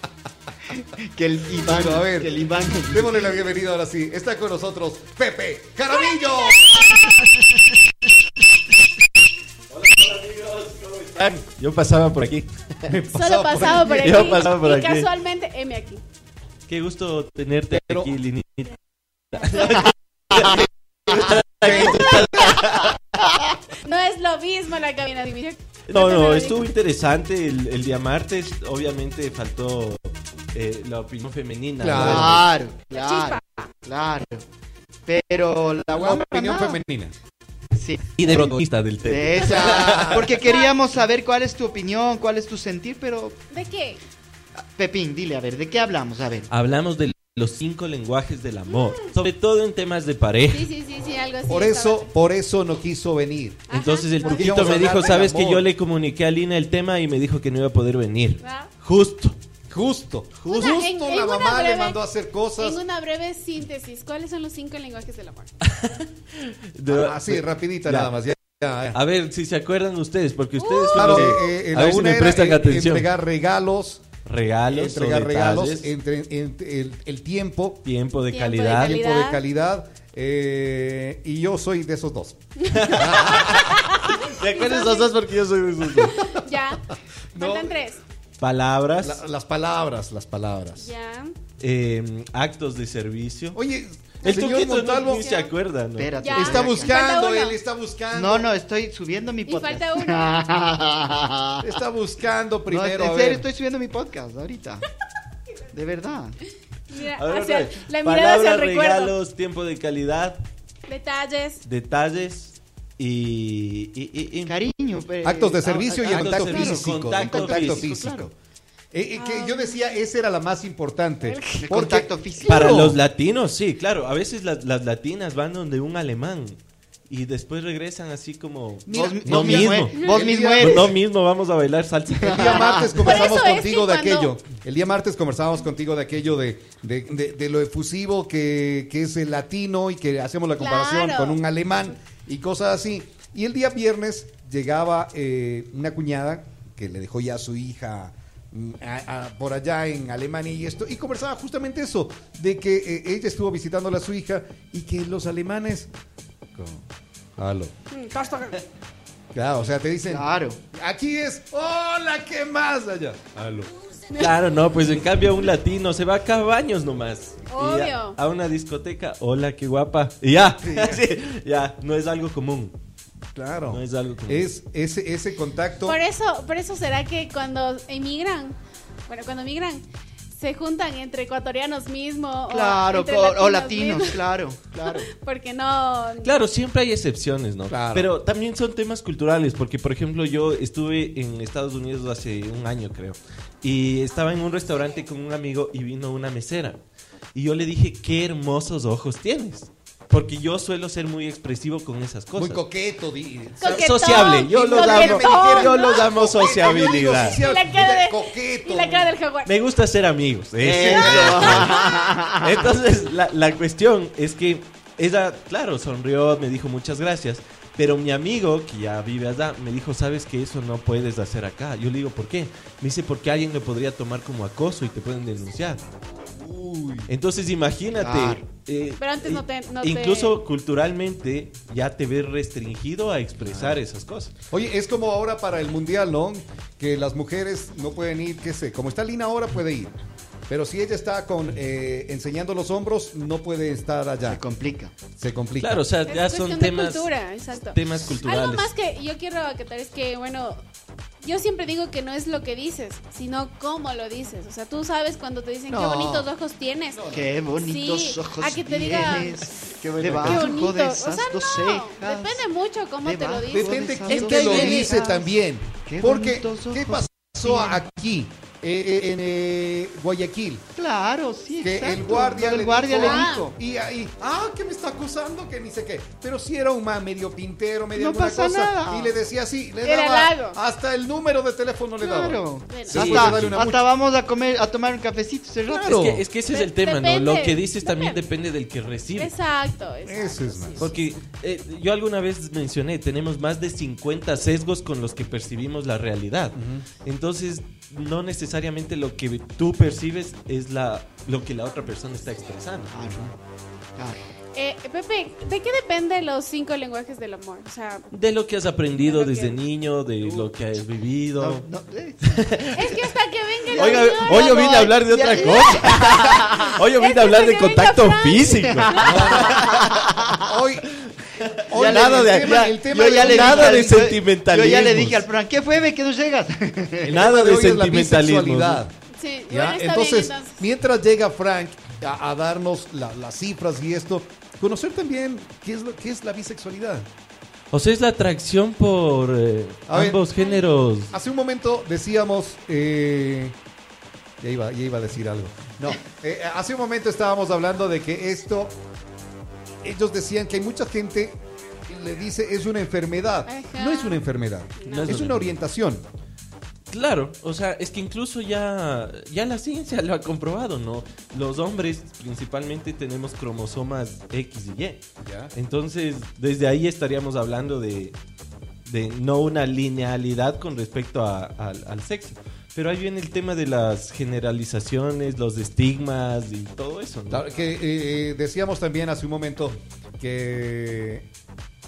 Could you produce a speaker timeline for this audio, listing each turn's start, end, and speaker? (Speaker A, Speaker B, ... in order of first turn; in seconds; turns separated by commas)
Speaker A: 0.7-3.5, Speaker B: 1.6-2.3, Speaker B: 2.9-7.2, Speaker C: 6.6-7.1, Speaker D: 9.7-12.9, Speaker B: 12.9-14.2, Speaker C: 13.1-16.0, Speaker D: 13.6-15.1, Speaker D: 16.7-18.8, Speaker B: 17.7-18.1, Speaker D: 19.3-23.0, Speaker B: 21.6-22.5, Speaker C: 23.8-26.7, Speaker D: 25.9-32.5, Speaker B: 31.8-32.4, Speaker A: 32.0-34.4, Speaker C: 32.9-33.7, Speaker A: 35.0-36.8, Speaker B: 35.9-37.1, Speaker A: 37.7-43.4, Speaker D: 38.2-40.4, Speaker B: 39.4-40.3, Speaker C: 40.5-40.7, Speaker C: 43.5-44.0, Speaker A: 44.6-46.5, Speaker D: 46.5-50.7, Speaker C: 50.5-52.0, Speaker B: 51.5-53.7, Speaker C: 53.7-54.7, Speaker D: 53.7-59.4, Speaker B: 54.3-55.7, Speaker C: 58.4-58.7, Speaker B: 59.7-62.8, Speaker D: 60.4-60.9, Speaker C: 60.5-62.0, Speaker C: 62.6-65.5, Speaker D: 65.7-68.2, Speaker B: 66.9-69.0, Speaker D: 68.9-73.1, Speaker C: 70.6-71.4, Speaker B: 70.9-74.1, Speaker D: 74.2-75.9, Speaker B: 74.7-77.8, Speaker D: 77.8-79.0, Speaker C: 78.3-79.4, Speaker B: 78.8-83.7, Speaker D: 82.7-86.2, Speaker C: 83.1-85.1, Speaker C: 86.0-88.0, Speaker B: 87.3-87.8, Speaker D: 88.4-89.2, Speaker B: 89.0-90.9, Speaker C: 90.8-91.3, Speaker D: 91.6-93.6, Speaker B: 93.5-95.2, Speaker D: 94.2-96.2, Speaker C: 94.2-95.5, Speaker A: 96.0-97.0, Speaker C: 96.2-97.5, Speaker B: 96.3-98.5, Speaker A: 98.1-101.6, Speaker C: 99.5-100.4, Speaker B: 101.6-103.5, Speaker A: 102.7-104.8, Speaker A: 105.7-106.4, Speaker C: 106.9-109.1, Speaker D: 107.0-110.4, Speaker C: 110.9-111.6, Speaker D: 111.6-114.6, Speaker A: 114.4-118.3, Speaker B: 115.2-118.3, Speaker D: 116.0-118.2, Speaker B: 118.9-123.0, Speaker C: 119.2-120.0, Speaker C: 121.2-121.6, Speaker A: 121.6-122.9, Speaker D: 122.5-130.0, Speaker B: 128.9-130.9, Speaker A: 128.9-130.9, Speaker C: 129.9-130.2, Speaker D: 130.6-132.9, Speaker A: 132.2-133.0, Speaker B: 132.2-155.9, Speaker C: 133.0-134.3, Speaker C: 140.6-141.4, Speaker B: 156.5-156.8, Speaker B: 157.4-157.7, Speaker C: 157.9-158.6, Speaker B: 159.3-163.7, Speaker A: 160.1-160.6, Speaker D: 164.1-172.8, Speaker C: 167.5-168.2, Speaker B: 170.6-171.0, Speaker B: 173.3-176.0, Speaker D: 173.7-174.5, Speaker C: 175.8-184.2, Speaker A: 182.5-185.1, Speaker C: 184.8-186.3, Speaker D: 186.2-196.8, Speaker B: 187.7-188.1, Speaker D: 197.3-202.6, Speaker B: 202.3-209.1, Speaker C: 203.6-206.1, Speaker D: 203.6-207.4, Speaker C: 206.6-209.5, Speaker D: 209.4-225.8, Speaker A: 210.6-212.8, Speaker B: 210.6-211.7, Speaker C: 211.5-212.0, Speaker B: 226.3-227.1, Speaker D: 227.1-234.3, Speaker A: 228.0-228.4, Speaker C: 229.0-230.4, Speaker B: 233.4-233.8, Speaker B: 234.5-239.9, Speaker B: 240.5-244.4, Speaker A: 244.2-244.9, Speaker B: 245.2-245.8, Speaker D: 245.6-248.7, Speaker C: 246.1-250.6, Speaker C: 251.2-257.0, Speaker A: 255.7-256.3, Speaker B: 256.9-257.3, Speaker A: 257.1-262.4, Speaker C: 257.6-259.4, Speaker D: 259.8-260.5, Speaker C: 260.2-264.1, Speaker A: 263.0-265.3, Speaker B: 263.5-270.6, Speaker D: 264.1-264.9, Speaker A: 265.8-267.8, Speaker A: 270.8-273.5, Speaker B: 271.6-283.8, Speaker C: 273.0-273.5, Speaker A: 277.9-279.1, Speaker C: 279.8-280.6, Speaker A: 282.0-285.9, Speaker C: 282.7-283.2, Speaker D: 283.2-283.6, Speaker B: 285.7-286.2, Speaker D: 285.8-289.3, Speaker C: 286.5-288.2, Speaker C: 289.1-290.9, Speaker B: 290.1-290.9, Speaker D: 290.8-303.0, Speaker B: 296.6-296.9, Speaker A: 302.9-303.3, Speaker C: 304.6-308.1, Speaker D: 308.1-311.7, Speaker C: 308.9-309.6, Speaker A: 310.2-310.5, Speaker A: 311.4-312.4, Speaker D: 312.2-313.0, Speaker C: 312.7-316.0, Speaker A: 313.7-316.7, Speaker D: 313.8-320.2, Speaker C: 316.9-319.4, Speaker B: 319.0-319.7, Speaker A: 319.5-320.3, Speaker B: 320.4-320.9, Speaker D: 321.0-325.3, Speaker B: 321.6-324.1, Speaker A: 321.8-327.2, Speaker B: 327.0-328.9, Speaker D: 327.1-328.8, Speaker C: 329.1-330.6, Speaker B: 329.5-337.1, Speaker D: 337.7-341.1, Speaker B: 339.9-340.2, Speaker B: 341.1-343.6, Speaker B: 344.4-348.8, Speaker B: 349.8-356.0, Speaker C: 353.5-354.2, Speaker C: 354.8-355.1, Speaker D: 354.9-355.6, Speaker D: 356.9-365.0, Speaker B: 365.2-365.5, Speaker D: 365.5-368.1, Speaker D: 368.9-377.4, Speaker B: 377.3-381.2